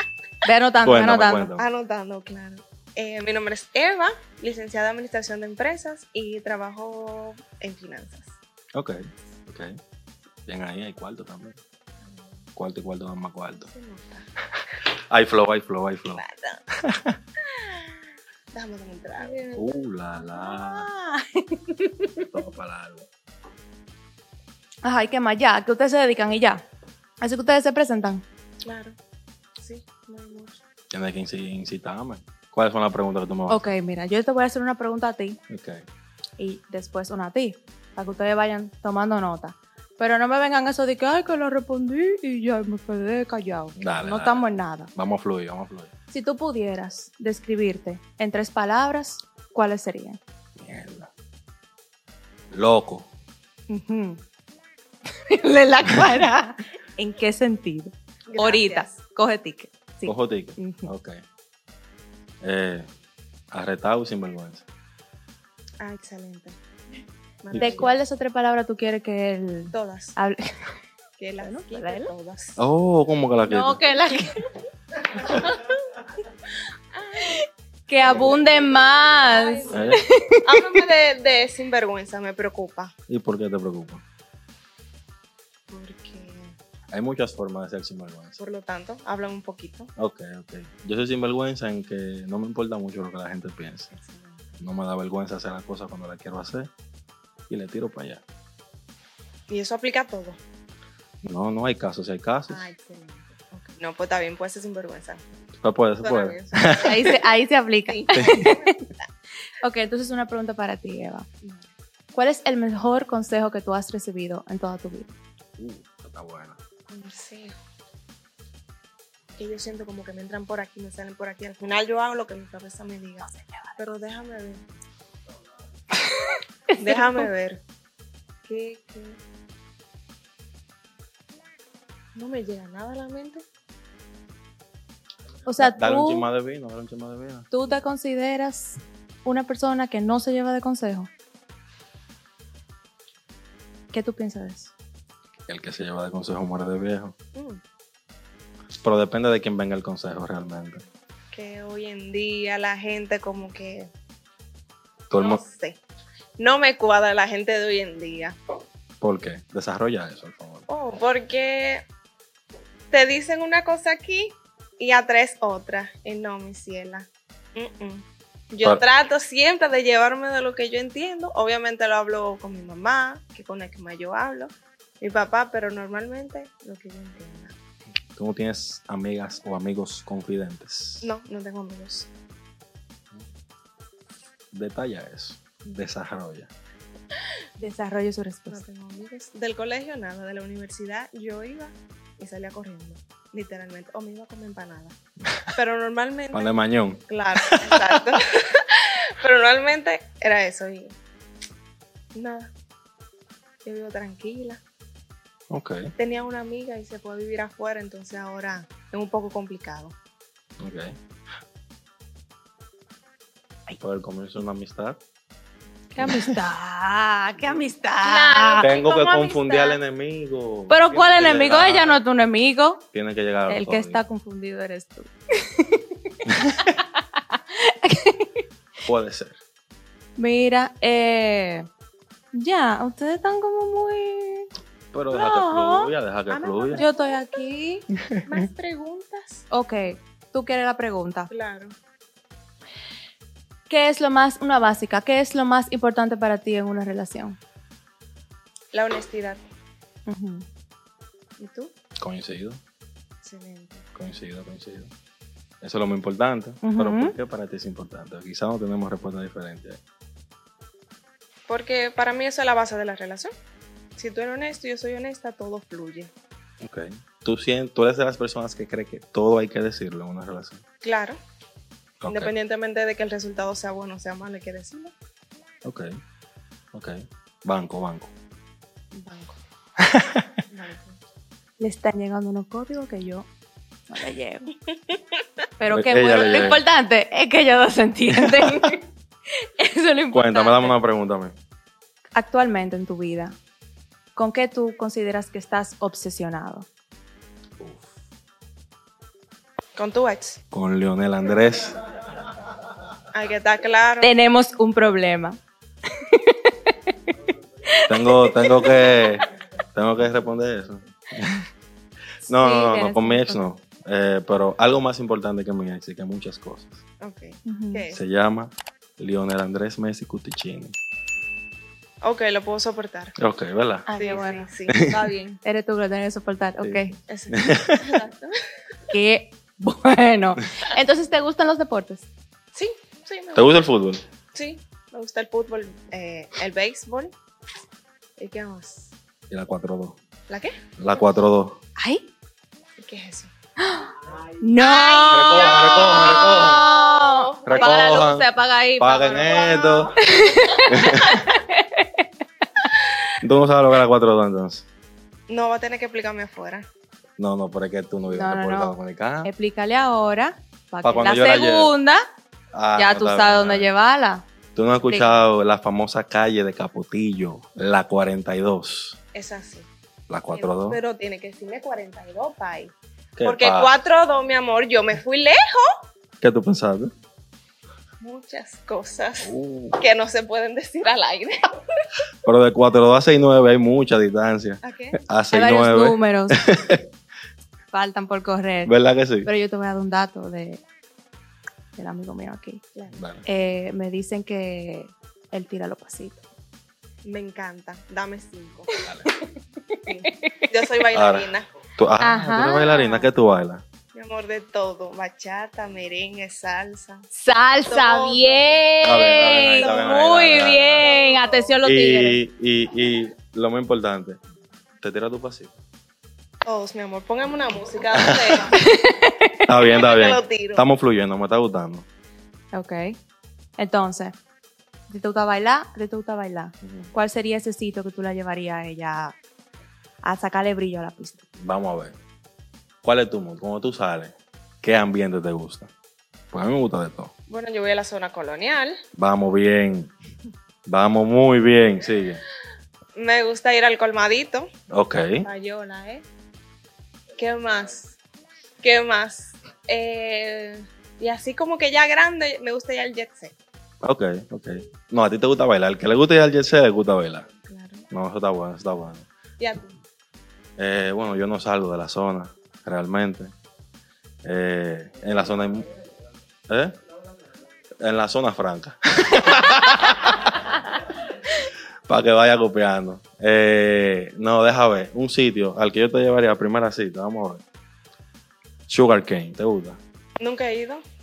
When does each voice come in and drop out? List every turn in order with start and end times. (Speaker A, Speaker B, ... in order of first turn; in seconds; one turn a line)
Speaker A: 0.4-1.5
Speaker B: 0.8-1.7
Speaker C: 1.6-8.3
Speaker B: 8.7-9.8
Speaker B: 10.5-11.6
Speaker C: 12.0-12.4
Speaker B: 12.6-13.7
Speaker C: 13.5-14.3
Speaker B: 15.1-16.2
Speaker C: 16.1-16.6
Speaker B: 16.8-17.1
Speaker C: 17.5-18.0
Speaker C: 18.5-19.7
Speaker A: 19.2-19.5
Speaker B: 19.6-20.9
Speaker A: 20.2-22.3
Speaker B: 22.3-23.1
Speaker A: 24.8-26.6
Speaker A: 27.2-28.2
Speaker C: 28.6-28.9
Speaker C: 29.6-30.6
Speaker B: 30.9-33.7
Speaker A: 33.5-35.4
Speaker B: 35.5-35.8
Speaker A: 36.4-44.9
Speaker B: 43.8-44.4
Speaker B: 44.9-45.9
Speaker A: 46.1-50.2
Speaker B: 50.6-51.1
Speaker B: 52.5-53.1
Speaker A: 53.7-54.2
Speaker A: 55.3-60.9
Speaker C: 58.3-59.0
Speaker B: 60.0-61.2
Speaker B: 62.4-62.9
Speaker B: 63.5-64.6
Speaker C: 65.8-66.6
Speaker C: 67.4-67.9
Speaker B: 67.5-67.9
Speaker A: 67.5-70.4
Speaker C: 69.7-70.2
Speaker C: 71.2-72.6
Speaker A: 71.4-72.1
Speaker B: 72.6-73.8
Speaker A: 73.4-74.3
Speaker A: 77.2-80.6
Speaker C: 78.1-82.9
Speaker B: 79.7-80.0
Speaker B: 83.1-84.0
Speaker C: 85.7-86.6
Speaker B: 86.9-88.4
Speaker C: 88.4-89.9
Speaker B: 90.0-93.9
Speaker C: 93.9-94.6
Speaker B: 94.6-96.7
Speaker B: 97.5-98.2
Speaker C: 99.5-100.4
Speaker B: 101.2-102.7
Speaker C: 102.5-105.2
Speaker B: 105.6-107.1
Speaker C: 106.0-109.0
Speaker A: 106.8-108.7
Speaker B: 108.2-108.5
Speaker A: 109.6-111.3
Speaker C: 111.4-111.7
Speaker A: 112.1-115.1
Speaker B: 115.6-116.6
Speaker C: 116.9-117.5
Speaker C: 119.3-124.6
Speaker A: 123.3-123.7
Speaker A: 126.1-126.3
Speaker C: 126.8-127.6
Speaker C: 128.4-129.2
Speaker C: 132.1-133.4
Speaker A: 135.4-136.2
Speaker B: 135.6-137.5
Speaker A: 137.5-141.1
Speaker A: 143.9-144.7
Speaker B: 145.5-147.1
Speaker C: 147.3-147.6
Speaker B: 148.8-150.8
Speaker C: 151.3-153.9
Speaker B: 155.1-155.4
Speaker C: 155.1-155.8
Speaker C: 156.4-158.4
Speaker B: 159.0-160.7
Speaker C: 160.7-161.8
Speaker C: 162.9-177.5
Speaker B: 178.2-181.1
Speaker C: 181.0-182.1
Speaker B: 184.5-186.5
Speaker A: 187.6-188.6
Speaker C: 188.5-195.0
Speaker C: 195.5-196.6
Speaker B: 196.3-197.8
Speaker C: 197.1-201.0
Speaker C: 202.1-202.5
Speaker C: 203.6-204.6
Speaker B: 205.5-205.9
Speaker C: 206.0-209.9
Speaker B: 210.6-210.9
Speaker B: 213.8-215.0
Speaker A: 215.9-218.7
Speaker B: 216.0-216.4
Speaker C: 218.0-219.8
Speaker B: 218.6-222.0
Speaker A: 220.7-222.8
Speaker B: 222.9-224.0
Speaker A: 223.5-228.4
Speaker B: 228.8-229.4
Speaker A: 230.2-231.7
Speaker A: 232.3-234.5
Speaker B: 234.9-236.8
Speaker A: 235.1-237.8
Speaker C: 236.7-237.3
Speaker C: 238.2-239.4
Speaker A: 239.5-241.3
Speaker C: 241.3-241.7
Speaker A: 243.7-247.4
Speaker C: 248.7-249.4
Speaker A: 250.1-250.4
Speaker C: 251.4-251.7
Speaker B: 252.0-252.6
Speaker C: 253.2-253.8
Speaker B: 253.9-254.9
Speaker B: 255.6-259.8
Speaker A: 256.6-257.1
Speaker C: 261.5-263.3
Speaker C: 264.0-266.1
Speaker B: 266.6-270.6
Speaker C: 270.8-271.2
Speaker B: 272.0-272.3
Speaker C: 272.1-274.9
Speaker B: 276.7-278.1
Speaker C: 278.9-279.4
Speaker B: 279.8-280.3
Speaker C: 280.5-281.0
Speaker A: 281.6-283.3
Speaker A: 283.9-284.5
Speaker A: 285.6-288.8
Speaker B: 285.7-286.6
Speaker B: 288.1-288.7
Speaker A: 289.6-290.8
Speaker B: 290.1-291.3
Speaker A: 292.1-293.4
Speaker A: 294.1-296.7
Speaker B: 297.6-297.9
Speaker C: 299.8-300.4
Speaker B: 300.5-301.7
Speaker C: 303.1-304.1
Speaker A: 304.0-305.4
Speaker A: 305.9-309.0
Speaker B: 307.9-311.4
Speaker B: 312.2-316.8
Speaker A: 312.2-313.4
Speaker C: 317.0-318.0
Speaker A: 317.4-317.8
Speaker B: 317.9-320.8
Speaker C: 322.0-323.1
Speaker B: 323.2-323.9
Speaker A: 323.9-324.5
Speaker C: 323.9-325.4
Speaker B: 324.7-324.9
Speaker A: 325.4-326.9
Speaker B: 326.6-327.9
Speaker C: 327.1-328.4
Speaker A: 328.9-332.1
Speaker C: 332.5-333.5
Speaker B: 333.3-334.0
Speaker C: 334.3-337.1
Speaker C: 338.2-338.9
Speaker B: 339.3-340.0
Speaker C: 340.3-340.6
Speaker B: 340.8-341.6
Speaker A: 341.8-342.1
Speaker C: 342.8-343.3
Speaker A: 343.6-343.9
Speaker A: 344.4-349.3
Speaker C: 344.6-347.9
Speaker B: 345.1-346.6
Speaker B: 347.4-348.3
Speaker B: 348.8-350.0
Speaker C: 348.9-349.9
Speaker A: 349.9-352.1
Speaker B: 350.7-351.2
Speaker B: 353.2-354.6
Speaker C: 355.3-356.7
Speaker B: 357.2-359.3
Speaker A: 358.1-362.0
Speaker B: 360.8-361.7
Speaker B: 362.5-363.7
Speaker A: 362.8-364.2
Speaker B: 364.6-369.0
Speaker A: 364.9-365.2
Speaker C: 369.1-369.7
Speaker B: 370.1-370.8
Speaker C: 370.3-375.7
Speaker B: 373.1-373.7
Speaker B: 376.2-376.9
Speaker C: 378.0-381.5
Speaker B: 379.2-379.8
Speaker B: 382.2-386.8
Speaker C: 384.6-385.0
Speaker A: 385.3-386.4
Speaker A: 387.7-390.6
Speaker B: 388.6-389.3
Speaker A: 391.8-392.6
Speaker B: 392.9-393.2
Speaker A: 393.2-396.2
Speaker C: 397.0-398.7
Speaker A: 398.7-400.4
Speaker C: 399.9-401.5
Speaker B: 400.9-403.6
Speaker A: 402.0-403.1
Speaker C: 403.9-407.1
Speaker A: 407.1-412.2
Speaker C: 407.7-408.6
Speaker B: 408.8-410.8
Speaker C: 409.2-410.1
Speaker C: 410.8-411.5
Speaker B: 411.6-414.2
Speaker B: 414.8-415.5
Speaker C: 416.4-418.5
Speaker B: 418.0-418.5
Speaker A: 418.5-419.4
Speaker B: 419.4-421.9
Speaker C: 419.6-420.6
Speaker A: 422.5-422.9
Speaker A: 423.6-424.2
Speaker A: 424.9-429.1
Speaker B: 426.6-426.9
Speaker A: 430.0-431.2
Speaker B: 431.4-431.9
Speaker B: 432.8-435.7
Speaker B: 436.3-437.1
Speaker C: 437.3-438.8
Speaker B: 438.9-439.9
Speaker B: 440.7-442.2
Speaker C: 442.9-444.5
Speaker B: 444.7-445.2
Speaker C: 445.2-446.1
Speaker C: 447.2-448.0
Speaker C: 448.6-453.3
Speaker B: 453.8-457.3
Speaker C: 457.5-457.9
Speaker B: 457.9-459.1
Speaker C: 459.4-459.8
Speaker B: 460.6-463.3
Speaker B: 464.2-465.7
Speaker B: 466.5-466.8
Speaker B: 467.8-470.4
Speaker B: 471.9-477.4
Speaker B: 478.7-479.8
Speaker C: 480.2-480.8